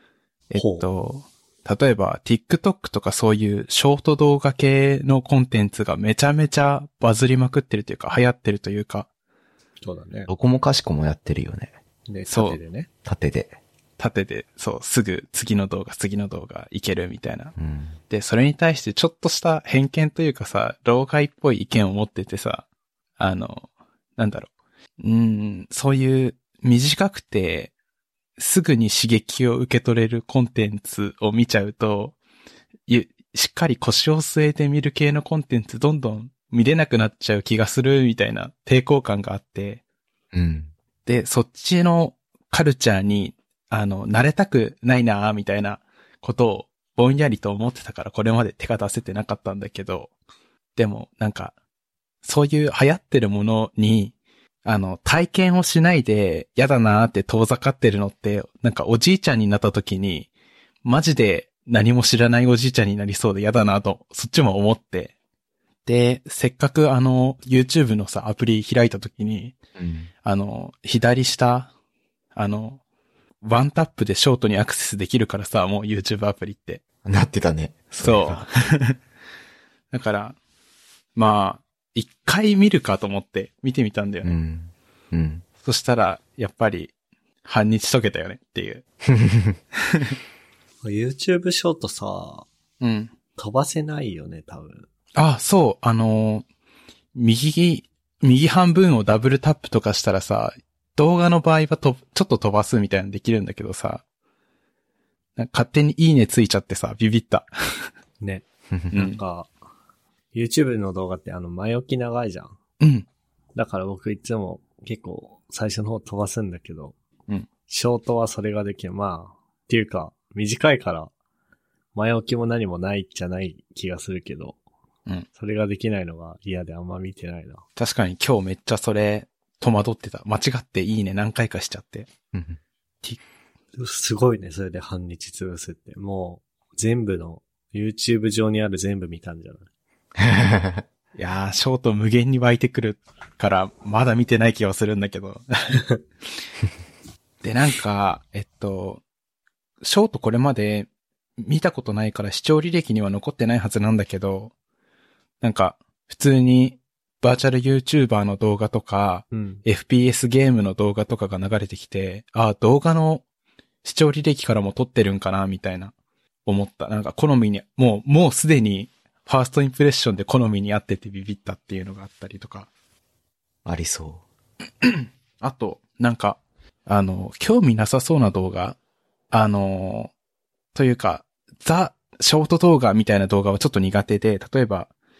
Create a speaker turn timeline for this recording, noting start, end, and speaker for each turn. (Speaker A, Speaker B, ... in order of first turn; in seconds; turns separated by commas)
Speaker A: 0.5-9.1, Speaker B: 0.6-0.9, Speaker B: 9.8-10.3, Speaker C: 10.3-11.7, Speaker B: 12.1-12.9, Speaker A: 12.3-12.6, Speaker C: 13.1-13.6, Speaker A: 14.0-17.5, Speaker C: 17.6-17.9, Speaker A: 18.1-22.6, Speaker A: 23.2-27.7, Speaker A: 28.4-32.2, Speaker A: 32.9-39.8, Speaker C: 40.3-40.7, Speaker A: 41.1-50.1, Speaker A: 50.8-51.5, Speaker A: 52.2-54.1, Speaker A: 54.6-60.3, Speaker A: 60.8-65.1, Speaker A: 65.9-69.6, Speaker C: 69.8-70.1, Speaker A: 70.2-71.7, Speaker A: 72.3-72.8, Speaker A: 73.4-76.8, Speaker C: 77.0-78.5, Speaker A: 78.0-79.0, Speaker A: 79.9-80.4, Speaker A: 81.2-84.3, Speaker C: 84.2-85.5, Speaker A: 85.6-86.9, Speaker A: 87.4-88.8, Speaker C: 89.1-89.6, Speaker A: 89.9-90.2, Speaker B: 90.8-92.5, Speaker A: 92.8-93.1, Speaker B: 93.4-94.9, Speaker A: 95.2-96.4, Speaker A: 97.2-104.0, Speaker A: 105.4-107.9, Speaker B: 108.2-109.5, Speaker C: 108.7-109.0, Speaker A: 108.9-109.2, Speaker B: 110.3-112.6, Speaker A: 112.8-113.1, Speaker B: 113.5-117.0, Speaker B: 117.7-121.1, Speaker B: 122.0-124.6, Speaker B: 125.4-127.6, Speaker A: 127.8-132.1, Speaker C: 132.3-132.6, Speaker B: 133.8-139.7, Speaker C: 140.2-140.8, Speaker A: 141.2-145.8, Speaker A: 147.4-149.0, Speaker A: 149.8-154.5, Speaker A: 155.4-163.2, Speaker B: 159.3-159.6, Speaker A: 163.8-165.9, Speaker A: 166.5-172.7, Speaker C: 173.7-174.2, Speaker A: 174.8-178.8, Speaker A: 179.3-180.1, Speaker A: 180.7-184.9